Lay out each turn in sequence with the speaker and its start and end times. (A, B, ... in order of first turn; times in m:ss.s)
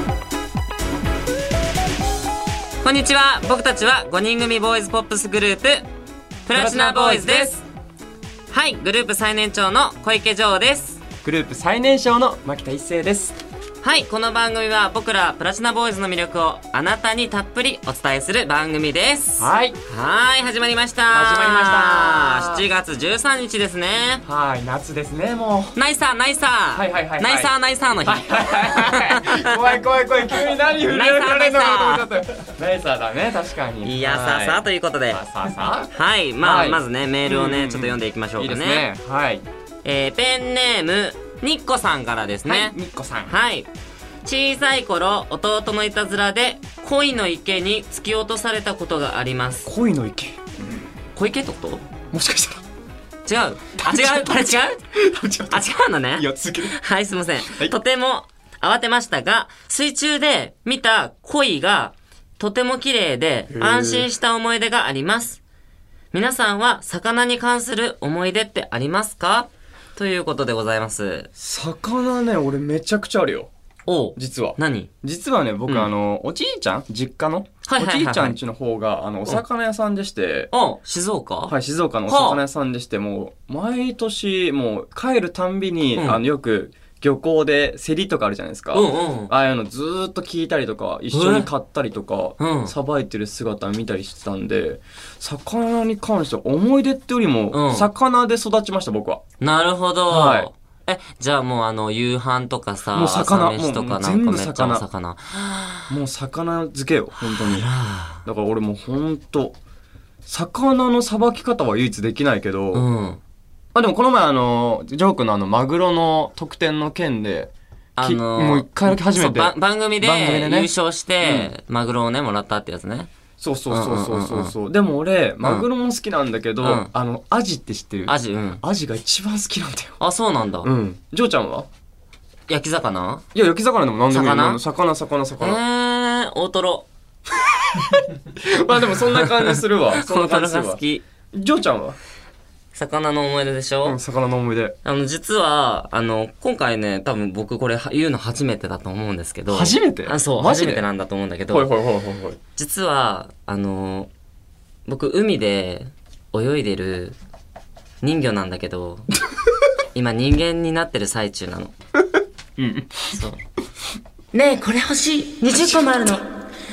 0:02.8-0:05.8 A
0:06.5-0:07.6 A
0:06.5-0:07.6 B
0:08.5-0:11.0 A
0:11.2-0:13.4 B
0:13.8-0:24.2 A
0:19.4-0:19.8 B
0:21.1-0:22.6 B
0:24.2-0:25.8 B
0:25.8-0:29.6 A
0:26.7-0:27.5 B
0:28.0-0:39.4 B
0:30.8-0:32.1 A
0:33.8-0:35.2 A
0:35.9-0:38.9 A
0:39.8-0:42.7 A
0:42.5-0:43.3 B
0:43.3-0:43.7 A
0:44.2-0:49.7 A
0:49.6-0:50.4 B
0:51.2-0:51.8 A
0:52.1-0:52.6 B
0:53.2-0:54.8 A
0:53.8-0:56.8 B
0:55.5-1:05.4 A
0:57.4-0:57.8 B
1:03.5-1:04.1 B
1:06.1-1:11.3 A
1:11.4-1:13.5 B
1:13.9-1:14.9 A
1:14.2-1:20.5 B
1:17.6-1:18.4 A
1:20.5-1:21.6 A
1:21.5-1:39.2 B
1:22.1-1:22.4 A
1:26.0-1:26.2 A
1:28.7-1:29.3 A
1:31.1-1:31.5 A
1:32.4-1:32.7 A
1:37.5-1:37.9 A
1:39.4-1:45.9 A
1:40.1-1:40.5 B
1:42.9-1:44.8 B
1:45.9-1:47.7 B
1:47.2-1:48.2 A
1:48.2-1:49.6 B
1:50.3-1:52.9 B
1:52.7-1:53.2 A
1:53.7-2:01.5 B
1:58.0-2:03.1 A
2:03.4-2:10.0 B
2:03.7-2:04.6 A
2:06.6-2:06.9 A
2:08.1-2:08.6 A
2:10.0-2:10.7 A
2:10.6-2:11.7 B
2:12.5-2:13.2 A
2:13.4-2:15.6 B
2:14.1-2:14.6 A
2:15.4-2:16.9 A
2:17.7-2:20.8 B
2:19.2-2:21.0 A
2:21.3-2:22.0 B
2:22.7-2:24.0 A
2:23.8-2:24.8 B
2:24.8-2:31.7 A
2:29.5-2:30.9 B
2:31.5-2:32.4 B
2:32.6-2:34.1 A
2:34.9-2:37.2 A
2:38.0-2:39.1 A
2:39.9-2:41.7 A
2:42.6-2:43.1 B
2:44.3-2:46.3 A